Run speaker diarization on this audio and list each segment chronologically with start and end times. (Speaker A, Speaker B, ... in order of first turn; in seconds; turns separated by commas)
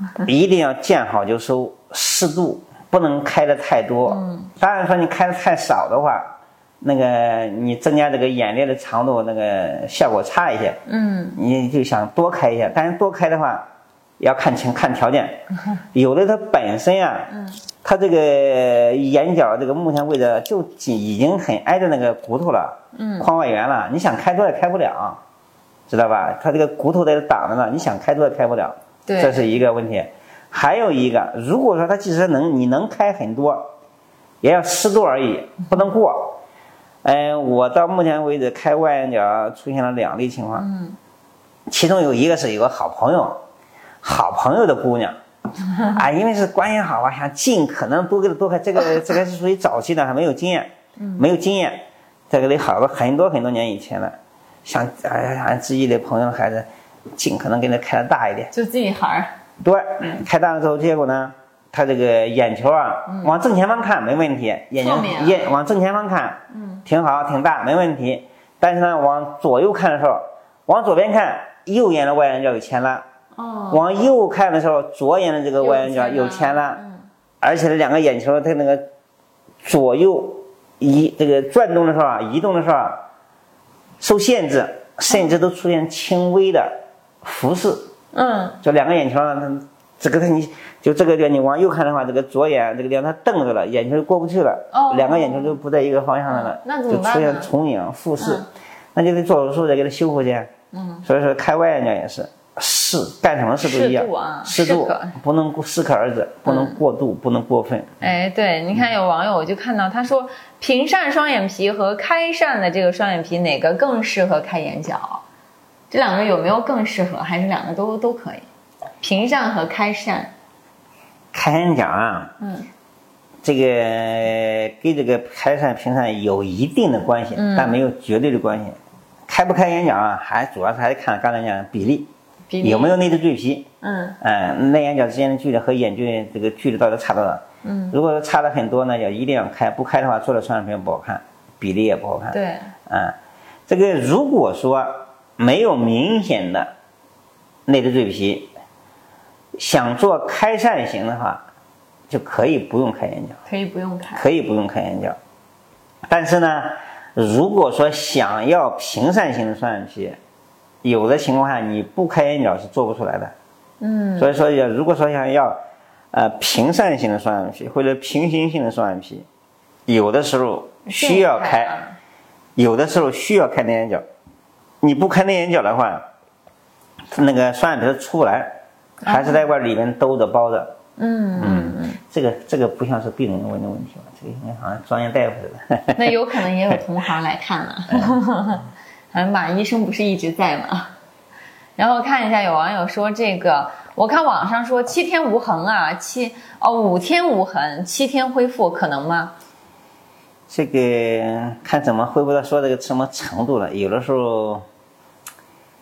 Speaker A: 0.2-10.8, Speaker B: 4.0-4.5, Speaker B: 10.9-11.4, Speaker A: 11.3-13.7, Speaker A: 14.2-17.3, Speaker B: 17.3-17.6, Speaker A: 17.8-25.2, Speaker B: 22.9-23.3, Speaker A: 25.9-33.7, Speaker B: 29.1-29.5, Speaker A: 34.4-36.4, Speaker A: 37.0-40.7, Speaker B: 40.6-41.0, Speaker A: 41.7-43.4, Speaker A: 44.0-45.2, Speaker A: 45.8-58.5, Speaker B: 51.0-51.2, Speaker B: 58.5-59.3, Speaker A: 59.6-73.0, Speaker B: 63.1-63.3, Speaker B: 64.8-65.5, Speaker B: 66.5-66.8, Speaker B: 73.3-73.8, Speaker A: 73.7-76.8, Speaker B: 75.6-77.0, Speaker A: 77.4-78.8, Speaker A: 79.6-83.0, Speaker A: 84.0-87.9, Speaker B: 88.1-88.6, Speaker A: 88.6-100.5, Speaker B: 94.7-95.6, Speaker B: 96.3-97.5, Speaker B: 98.2-98.5, Speaker B: 100.7-101.0, Speaker A: 101.0-108.0, Speaker B: 103.6-105.2, Speaker B: 106.5-106.8, Speaker B: 108.0-115.2, Speaker B: 115.9-118.5, Speaker B: 119.0-120.3, Speaker A: 121.3-122.3, Speaker B: 122.4-122.7, Speaker A: 123.4-132.1, Speaker B: 127.3-127.8, Speaker B: 132.5-132.9, Speaker A: 132.6-133.7, Speaker B: 133.8-134.2, Speaker A: 134.2-143.2, Speaker B: 137.6-138.0, Speaker B: 142.3-142.7, Speaker A: 143.7-146.7, Speaker A: 147.7-148.5, Speaker A: 149.6-151.4, Speaker A: 152.1-153.4, Speaker B: 153.4-154.2, Speaker A: 154.1-155.2, Speaker A: 156.1-160.2, Speaker A: 160.8-163.3, Speaker B: 163.8-164.3, Speaker A: 164.2-165.6, Speaker A: 166.1-169.2, Speaker A: 169.9-171.8, Speaker B: 170.8-171.9, Speaker A: 172.6-174.0, Speaker A: 174.8-176.1, Speaker A: 177.1-180.8, Speaker B: 179.0-179.4, Speaker B: 181.0-182.0, Speaker A: 181.4-186.2, Speaker B: 185.9-190.9, Speaker B: 191.8-199.3, Speaker A: 200.5-204.6